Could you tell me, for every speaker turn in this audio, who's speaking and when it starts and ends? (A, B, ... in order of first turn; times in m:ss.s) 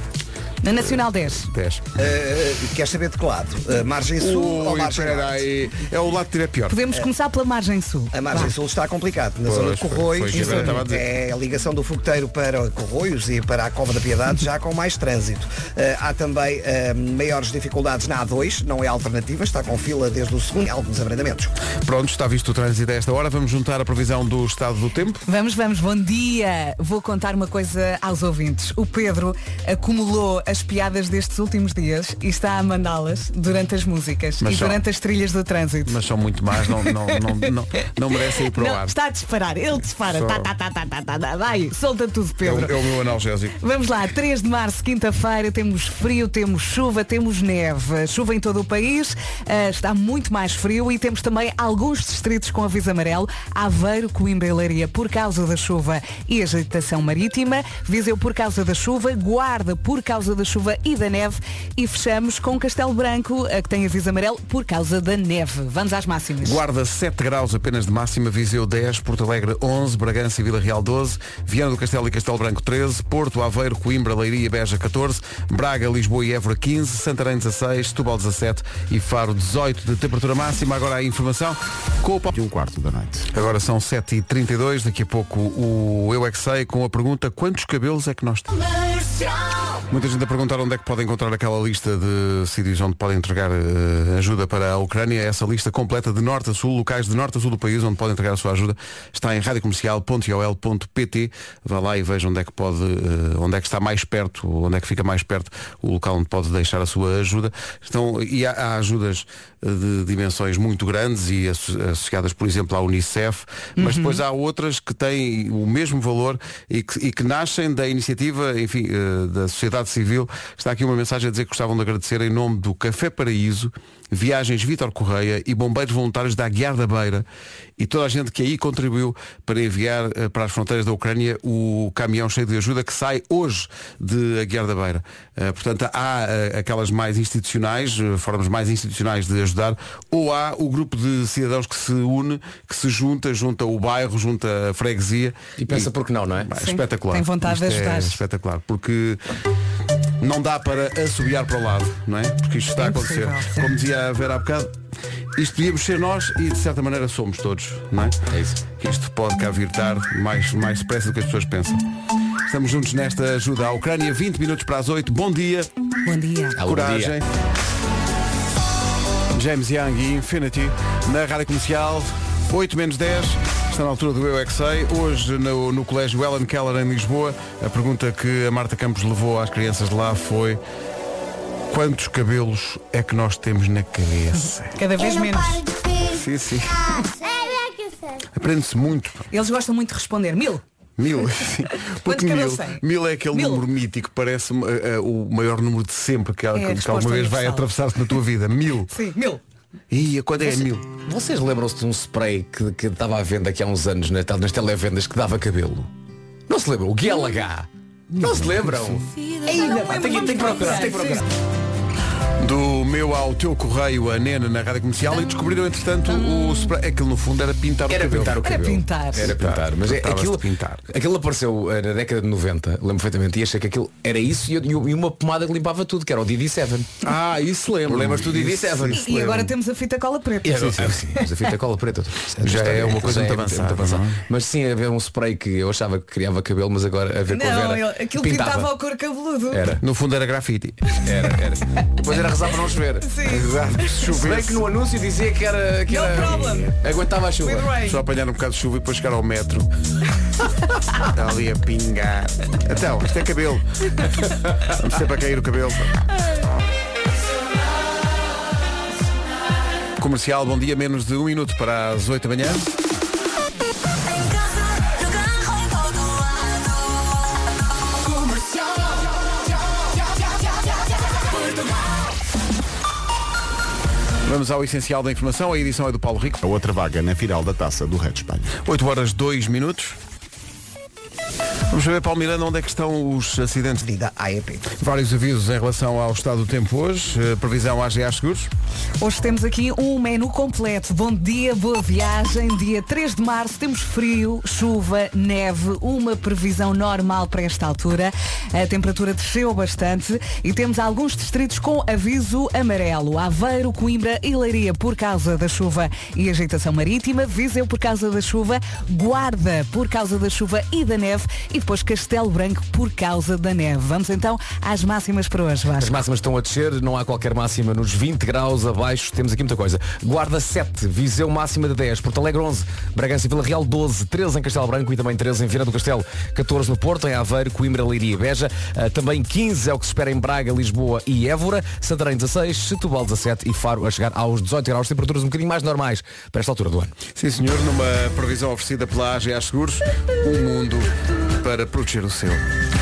0:00.6-0:01.5 A
0:00.8-0:01.8 B
0:02.0-0:05.4 C
0:04.2-0:06.8 B
0:06.7-0:08.5 A
0:08.1-0:21.6 C
0:09.4-0:11.0 B
0:10.3-0:10.8 A
0:21.8-0:25.2 B
0:25.2-0:36.0 A
0:34.4-0:34.8 B
0:35.8-0:38.9 B
0:36.6-0:37.4 A
0:38.2-0:42.8 A
0:40.1-0:40.5 B
0:42.4-0:43.6 B
0:43.6-1:06.6 A
1:06.4-1:22.3 B
1:22.3-1:23.3 D
1:23.3-1:28.5 B
1:29.9-2:07.2 B
1:53.8-1:54.2 A
2:07.8-2:25.9 B
2:25.6-2:26.5 E
2:26.4-2:29.2 B
2:26.5-2:28.2 A
2:30.2-2:34.7 B
2:32.8-2:33.7 A
2:35.4-2:38.2 B
2:38.3-2:38.6 E
2:38.8-2:41.8 B
2:42.5-2:45.7 B
2:46.0-2:46.6 A
2:46.6-2:47.1 E
2:46.6-2:47.2 B
2:49.3-3:00.6 B
3:01.7-3:04.8 B
3:04.7-3:05.7 A
3:05.0-3:06.2 F
3:06.1-3:06.9 B
3:07.0-3:08.2 F
3:08.3-3:09.3 B
3:09.3-3:10.6 A
3:11.0-3:19.0 B
3:12.0-3:13.6 A
3:16.5-3:17.7 A
3:18.9-3:19.4 A
3:19.9-3:20.8 B
3:21.0-3:25.9 E
3:26.5-3:27.7 E
3:28.1-3:29.0 B
3:28.2-3:31.2 E
3:29.4-3:31.2 A
3:32.4-3:38.4 B
3:36.1-3:36.7 A
3:37.9-3:46.9 E
3:38.4-3:39.3 A
3:39.2-3:40.8 B
3:47.0-3:49.1 B
3:47.9-3:49.5 E
3:48.9-3:51.3 A
3:50.4-3:58.7 E
3:50.6-3:51.0 B
3:52.4-3:54.2 B
3:57.3-3:59.7 A
3:59.5-3:59.8 E
3:59.8-4:00.8 B
4:01.0-4:03.1 E
4:03.0-4:04.0 A
4:03.2-4:04.6 B
4:04.0-4:07.7 E
4:05.9-4:06.8 A
4:07.4-4:08.0 A
4:07.8-4:09.7 B
4:11.0-4:13.9 B
4:14.6-4:16.0 B
4:20.0-4:22.7 B
4:34.2-4:36.4 B
4:36.4-4:38.5 D
4:38.6-4:40.0 B
4:41.7-4:43.8 B
4:43.8-4:44.6 C
4:44.8-4:48.5 B
4:49.0-5:16.0 A
5:15.8-5:36.9 E
5:37.2-5:42.4 B